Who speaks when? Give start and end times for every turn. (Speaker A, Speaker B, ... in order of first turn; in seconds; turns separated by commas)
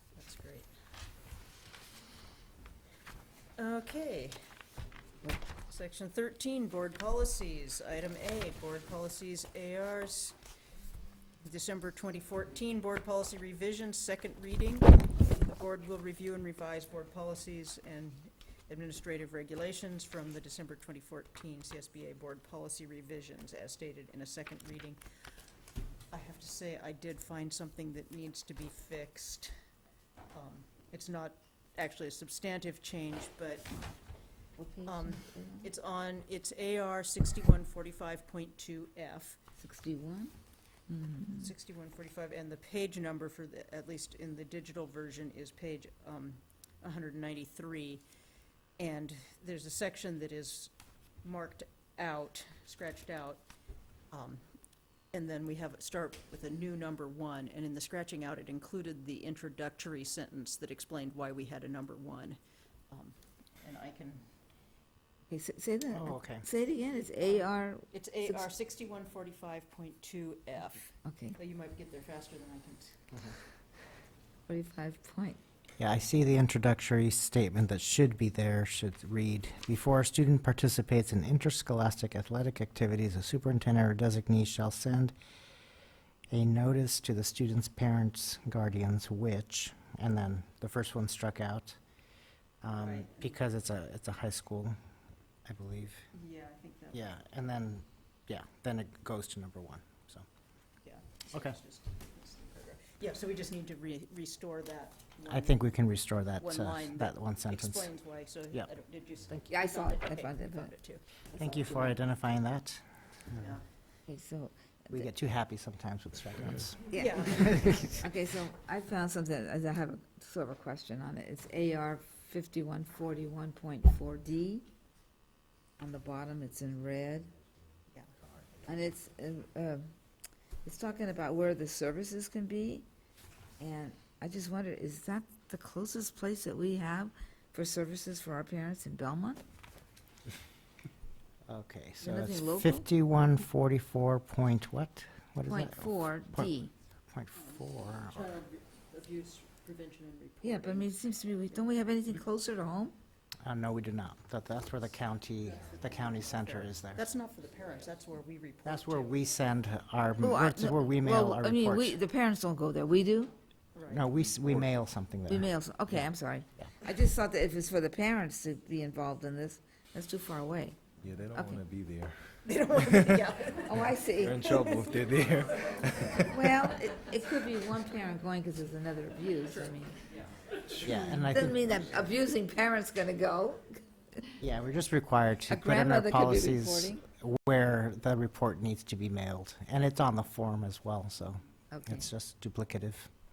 Speaker A: 0.1-0.7, Speaker A: 3.6-4.4, Speaker A: 5.7-10.4, Speaker A: 11.4-25.0, Speaker A: 26.1-29.5, Speaker A: 30.3-33.7, Speaker B: 34.6-35.7, Speaker A: 34.8-39.4, Speaker B: 39.6-40.3, Speaker B: 40.9-41.5, Speaker A: 41.4-48.0, Speaker A: 48.8-53.4, Speaker A: 54.1-54.5, Speaker A: 55.1-62.4, Speaker A: 62.9-64.3, Speaker B: 65.3-68.4, Speaker C: 65.9-66.4, Speaker A: 67.9-73.1, Speaker B: 71.0-71.3, Speaker B: 74.5-75.4, Speaker C: 75.8-85.1, Speaker C: 86.3-91.8, Speaker C: 92.6-94.7, Speaker A: 92.8-93.4, Speaker C: 95.5-96.0, Speaker A: 96.1-97.0, Speaker C: 96.9-100.2, Speaker A: 100.8-105.6, Speaker C: 105.2-107.9, Speaker A: 106.4-111.0, Speaker B: 109.5-110.7, Speaker B: 111.3-111.9, Speaker C: 111.3-112.8, Speaker A: 113.3-113.6, Speaker B: 114.1-115.0, Speaker C: 114.9-117.9, Speaker A: 116.9-117.8, Speaker B: 116.9-124.7, Speaker B: 125.8-127.3, Speaker B: 128.7-129.9, Speaker B: 130.6-132.8, Speaker B: 133.6-139.4, Speaker C: 141.4-146.5, Speaker B: 142.0-142.8, Speaker B: 145.5-146.7, Speaker C: 147.1-148.3, Speaker A: 147.4-150.9, Speaker B: 150.4-152.9, Speaker C: 153.4-157.0, Speaker A: 155.5-159.3, Speaker C: 158.6-162.0, Speaker B: 160.2-163.3, Speaker A: 163.7-164.1, Speaker C: 163.9-166.0, Speaker B: 165.3-170.8, Speaker D: 171.0-173.3, Speaker B: 171.3-171.6, Speaker A: 172.4-174.9, Speaker B: 173.7-174.5, Speaker D: 174.1-176.3, Speaker B: 176.2-179.9, Speaker A: 179.5-181.3, Speaker C: 180.8-181.8, Speaker B: 181.2-184.3, Speaker C: 184.4-193.1, Speaker B: 185.5-187.0, Speaker B: 191.7-192.0